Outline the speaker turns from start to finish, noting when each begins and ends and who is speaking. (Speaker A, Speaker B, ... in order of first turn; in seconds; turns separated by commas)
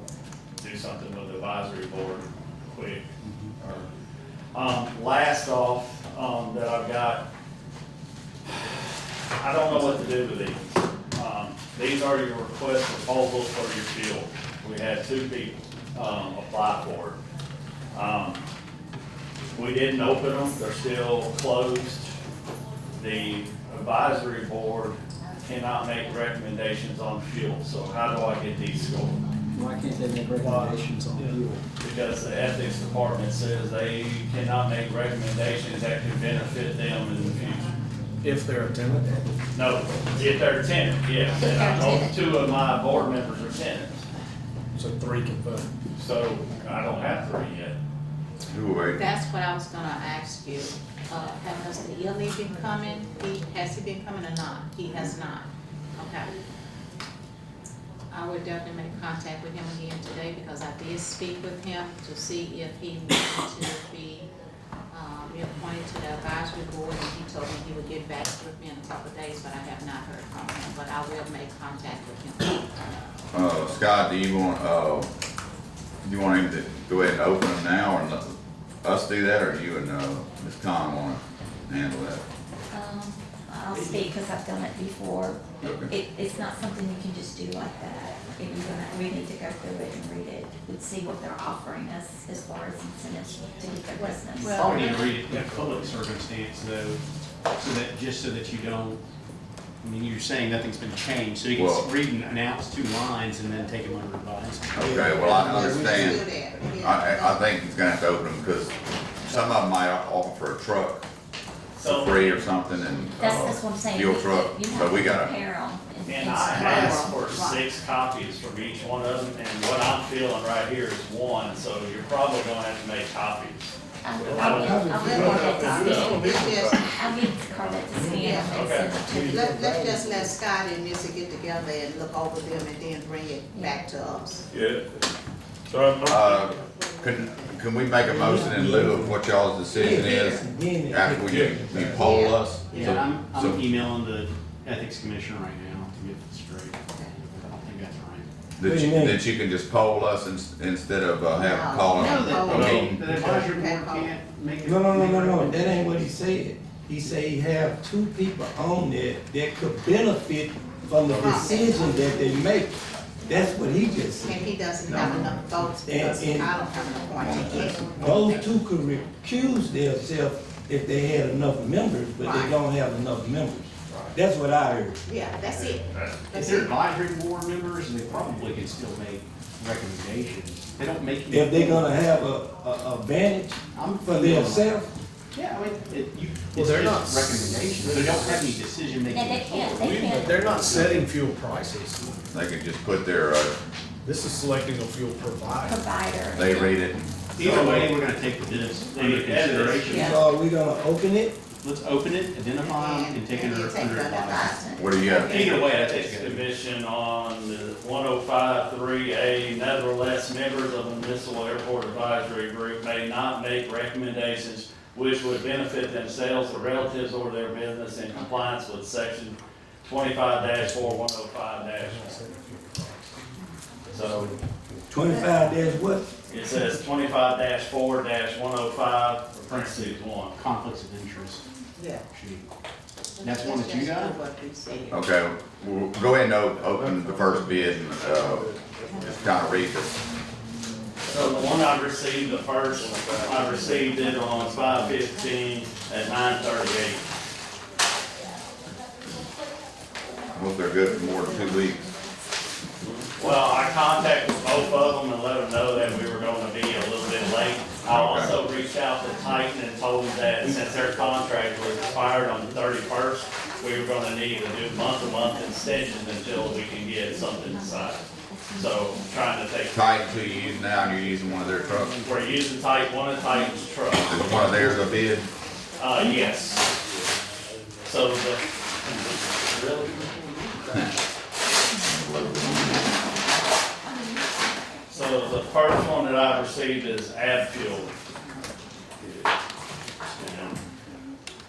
Speaker A: 0.6-3.1, Speaker B: 3.2-3.5, Speaker A: 3.6-3.9, Speaker A: 4.5-7.2, Speaker A: 9.4-17.2, Speaker A: 17.9-18.4, Speaker A: 19.5-22.1, Speaker A: 22.9-29.2, Speaker C: 29.5-31.6, Speaker D: 30.4-31.4, Speaker A: 31.8-37.7, Speaker D: 38.2-39.3, Speaker A: 39.5-44.0, Speaker E: 41.4-42.2, Speaker D: 44.7-45.7, Speaker A: 46.0-47.8, Speaker F: 48.5-49.1, Speaker G: 48.9-56.3, Speaker G: 58.1-64.3, Speaker G: 64.9-72.7, Speaker F: 73.3-75.1, Speaker F: 76.0-82.2, Speaker E: 82.7-95.0, Speaker B: 83.7-84.0, Speaker G: 93.9-95.2, Speaker B: 94.4-97.0, Speaker B: 97.6-99.0, Speaker B: 99.8-105.0, Speaker F: 101.5-101.9, Speaker F: 104.7-106.2, Speaker H: 104.8-106.3, Speaker G: 105.1-107.5, Speaker F: 106.8-108.7, Speaker F: 109.2-111.0, Speaker A: 111.7-112.4, Speaker F: 111.8-115.3, Speaker E: 113.2-117.6, Speaker A: 116.0-123.7, Speaker G: 116.6-117.0, Speaker E: 124.0-129.8, Speaker D: 124.2-126.8, Speaker A: 124.3-125.4, Speaker G: 124.8-126.9, Speaker G: 128.1-128.5, Speaker A: 128.3-129.0, Speaker G: 129.1-134.5, Speaker D: 134.5-134.8, Speaker D: 135.7-136.2, Speaker F: 136.0-143.6, Speaker G: 136.2-137.7, Speaker H: 138.0-139.2, Speaker G: 139.7-140.4, Speaker H: 139.7-141.9, Speaker D: 141.3-142.0, Speaker G: 141.9-143.0, Speaker B: 142.7-148.3, Speaker F: 148.6-153.1, Speaker H: 148.6-149.2, Speaker G: 151.3-154.2, Speaker B: 151.9-155.9, Speaker H: 154.6-164.4, Speaker G: 161.1-162.0, Speaker G: 164.2-168.5, Speaker F: 164.9-165.4, Speaker H: 165.0-166.5, Speaker F: 167.1-167.8, Speaker H: 167.8-175.0, Speaker G: 172.2-172.6, Speaker G: 175.0-176.7, Speaker B: 176.3-182.0, Speaker H: 181.3-184.9, Speaker B: 183.7-184.8, Speaker B: 185.3-191.1, Speaker D: 186.5-188.6, Speaker E: 189.1-190.9, Speaker D: 189.8-192.1, Speaker F: 192.3-193.6, Speaker D: 194.0-195.8, Speaker E: 195.6-196.8, Speaker F: 196.3-197.4, Speaker B: 197.3-200.2, Speaker H: 197.4-197.9, Speaker A: 198.9-200.0, Speaker E: 199.9-200.2, Speaker H: 199.9-201.3, Speaker B: 201.6-204.6, Speaker G: 202.6-205.6, Speaker E: 204.5-204.8, Speaker F: 204.7-205.3, Speaker B: 205.1-206.4, Speaker A: 205.3-222.2, Speaker D: 220.7-220.9, Speaker D: 221.8-222.8, Speaker A: 223.9-224.3, Speaker H: 224.9-226.1, Speaker G: 225.0-225.5, Speaker A: 226.3-230.3, Speaker B: 229.4-231.4, Speaker G: 231.8-232.0, Speaker B: 232.1-232.5, Speaker G: 233.2-235.1, Speaker B: 233.2-234.2, Speaker F: 234.9-239.9, Speaker D: 236.8-239.4, Speaker A: 241.1-247.0, Speaker D: 242.8-244.9, Speaker F: 250.3-251.8, Speaker A: 253.2-268.0, Speaker F: 257.8-258.4, Speaker E: 267.6-269.1, Speaker A: 268.5-269.8, Speaker F: 269.7-271.9, Speaker A: 272.0-274.7, Speaker F: 274.1-275.3, Speaker A: 275.8-276.6, Speaker A: 277.8-280.2, Speaker F: 281.8-282.9, Speaker E: 283.8-285.1, Speaker A: 284.9-287.9, Speaker A: 290.2-290.6